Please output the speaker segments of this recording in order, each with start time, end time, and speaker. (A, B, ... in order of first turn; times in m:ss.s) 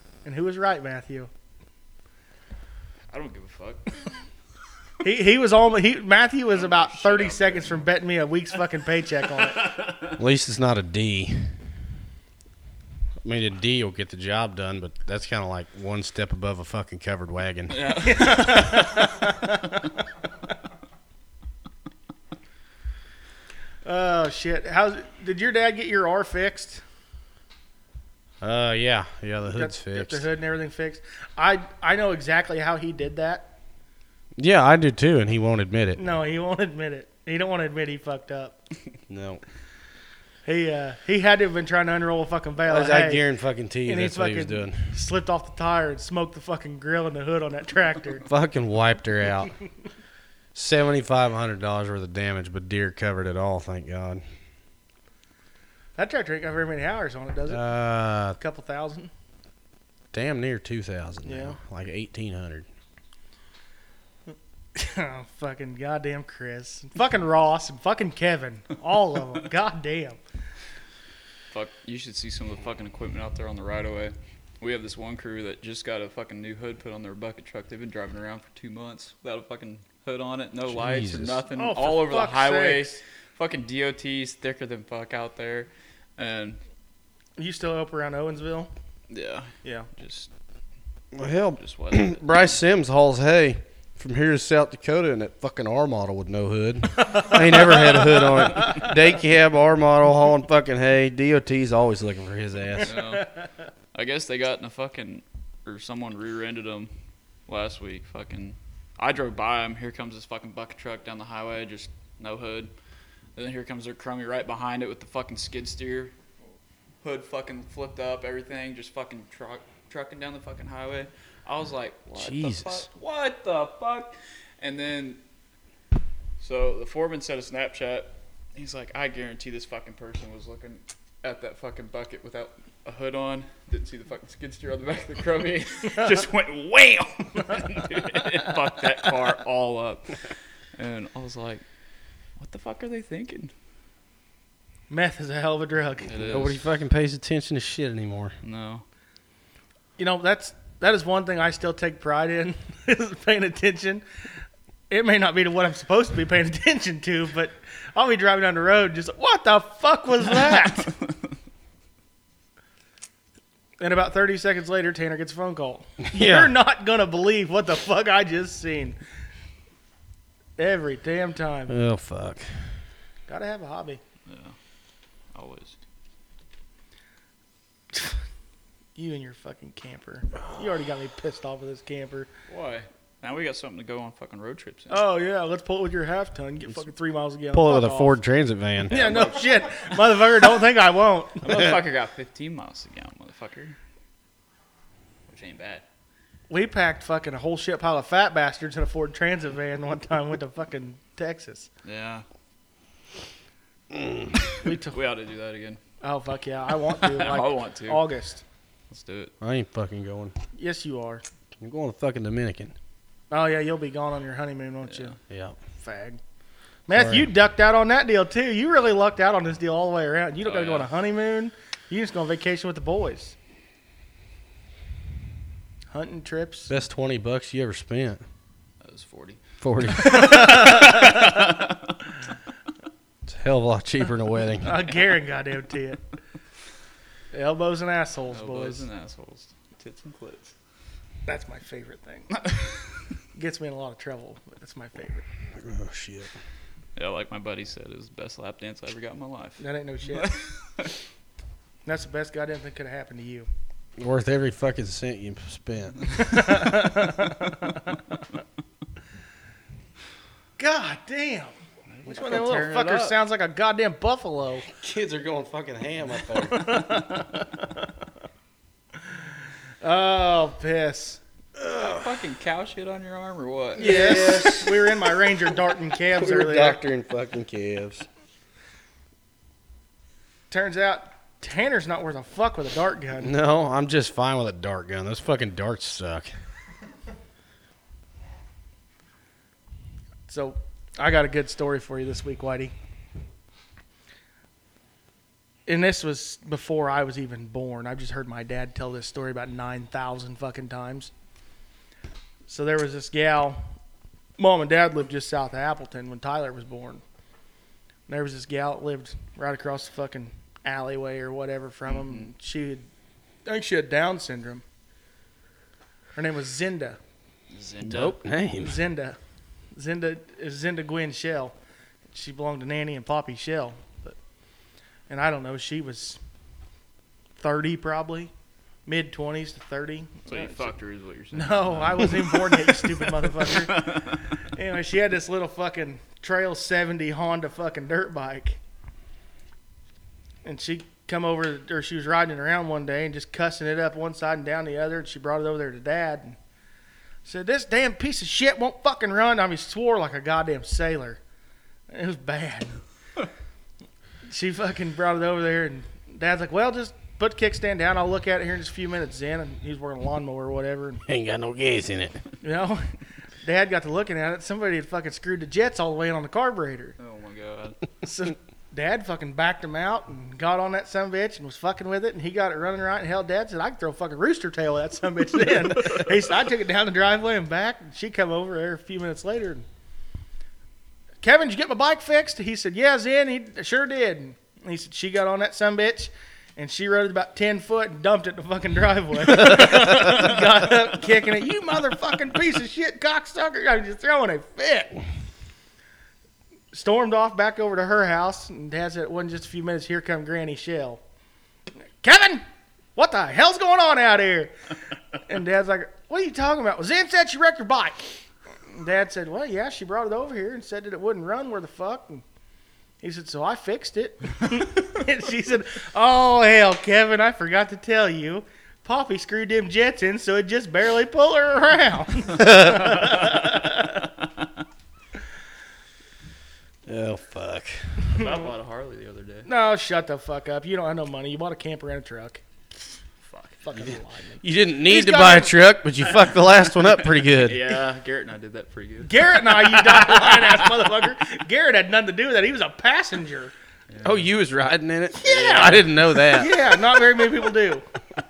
0:00.2-0:01.3 A
0:03.1-0:04.1 B
0:05.0-0:09.7 A
0:06.5-0:07.9 B
0:09.6-0:10.1 B
0:10.2-0:11.5 C
0:13.2-0:17.8 C
0:17.7-0:19.3 B
0:18.0-0:19.8 A
0:23.8-0:26.8 A
0:28.4-0:30.2 C
0:29.5-0:33.5 A
0:34.4-0:36.0 C
0:36.0-0:38.6 A
0:39.1-0:39.4 C
0:40.5-0:43.2 A
0:42.7-0:44.9 C
0:43.8-0:48.3 A
0:48.3-0:49.5 C
0:50.6-0:54.2 C
0:56.0-0:57.7 A
0:57.5-0:58.4 C
0:58.3-0:59.1 A
1:00.1-1:02.7 C
1:01.2-1:01.6 A
1:04.8-1:10.2 A
1:11.5-1:26.6 B
1:20.7-1:21.4 C
1:21.6-1:23.0 A
1:27.4-1:28.7 A
1:29.1-1:30.3 B
1:31.1-1:43.0 C
1:31.6-1:32.4 B
1:37.1-1:38.9 A
1:42.8-1:43.3 B
1:43.9-1:46.9 B
1:47.5-1:52.7 B
1:53.4-1:56.1 B
1:57.0-2:05.2 B
2:02.1-2:02.9 C
2:06.4-2:20.2 B
2:20.8-2:21.6 B
2:22.4-2:23.5 B
2:24.9-2:26.5 A
2:26.1-2:26.6 B
2:26.3-2:28.4 C
2:28.4-2:28.8 B
2:30.0-2:34.0 A
2:34.9-2:40.9 A
2:40.4-2:41.0 B
2:43.8-2:49.0 A
2:46.0-2:46.5 C
2:50.6-2:51.7 A
2:51.7-2:52.6 C
2:53.3-2:54.0 A
2:54.3-2:54.6 B
2:55.3-2:55.8 B
2:59.0-3:02.3 A
3:02.5-3:05.0 B
3:04.9-3:08.2 A
3:07.5-3:09.0 C
3:08.9-3:09.7 B
3:08.9-3:11.7 A
3:11.4-3:13.8 B
3:15.3-3:15.8 B
3:16.5-3:21.7 A
3:21.8-3:22.2 B
3:23.9-3:24.3 C
3:24.5-3:25.8 B
3:24.6-3:25.0 A
3:26.0-3:28.4 A
3:26.9-3:28.0 B
3:28.9-3:29.3 B
3:29.4-3:30.3 C
3:30.6-3:31.2 A
3:31.6-3:32.7 C
3:33.3-3:35.2 A
3:35.3-3:35.6 C
3:35.8-3:36.2 A
3:36.9-3:43.4 A
3:36.9-3:37.3 C
3:40.4-3:40.9 B
3:45.9-3:46.7 A
3:46.7-3:48.2 C
3:48.8-3:52.0 B
3:49.6-3:50.6 C
3:50.0-3:51.4 A
3:53.3-3:54.7 C
3:54.6-3:56.0 A
3:57.3-3:58.8 A
3:58.3-4:00.5 B
4:01.3-4:02.4 A
4:02.4-4:02.8 B
4:03.4-4:05.3 A
4:05.6-4:06.3 C
4:07.0-4:10.9 B
4:09.6-4:10.3 A
4:11.9-4:13.5 A
4:14.0-4:16.4 C
4:16.2-4:17.8 A
4:20.6-4:21.5 A
4:22.0-4:23.2 B
4:22.1-4:24.7 A
4:24.8-4:26.8 C
4:26.5-4:27.8 A
4:29.8-4:31.2 A
4:31.6-4:32.1 C
4:31.7-4:34.0 B
4:33.8-4:35.2 C
4:33.8-4:36.8 A
4:36.2-4:38.1 C
4:40.5-4:43.3 A
4:43.2-4:46.3 C
4:50.3-4:52.7 A
4:55.7-5:01.1 A
5:02.5-5:03.6 A
5:04.4-5:07.0 A
5:08.1-5:12.9 A
5:11.9-5:12.3 B
5:13.5-5:14.6 A
5:16.2-5:17.0 A
5:17.5-5:18.2 B
5:17.8-5:18.8 C
5:18.6-5:19.2 A
5:19.7-5:21.5 A
5:22.1-5:24.2 A
5:25.1-5:26.2 A
5:27.4-5:28.3 A
5:28.9-5:30.7 A
5:30.3-5:34.2 B
5:31.3-5:38.6 A
5:40.4-5:46.4 A
5:47.2-5:51.2 A
5:51.9-5:52.8 A
5:54.3-6:01.0 A
6:01.1-6:02.2 C
6:02.4-6:07.0 A
6:07.0-6:07.8 B
6:08.0-6:19.7 A
6:21.2-6:35.0 A
6:36.7-6:41.0 A
6:42.0-6:42.4 A
6:43.0-6:44.5 A
6:45.2-6:48.0 A
6:48.7-6:52.2 A
6:53.0-7:04.0 A
7:02.4-7:03.1 C
7:03.2-7:03.7 B
7:06.9-7:08.1 C
7:08.1-7:09.5 B
7:09.5-7:12.4 A
7:13.2-7:13.6 B
7:13.6-7:15.6 A
7:14.4-7:17.6 C
7:17.4-7:20.9 B
7:19.0-7:23.5 A
7:23.9-7:24.2 B
7:24.0-7:26.6 C
7:25.2-7:26.0 B
7:25.3-7:27.8 A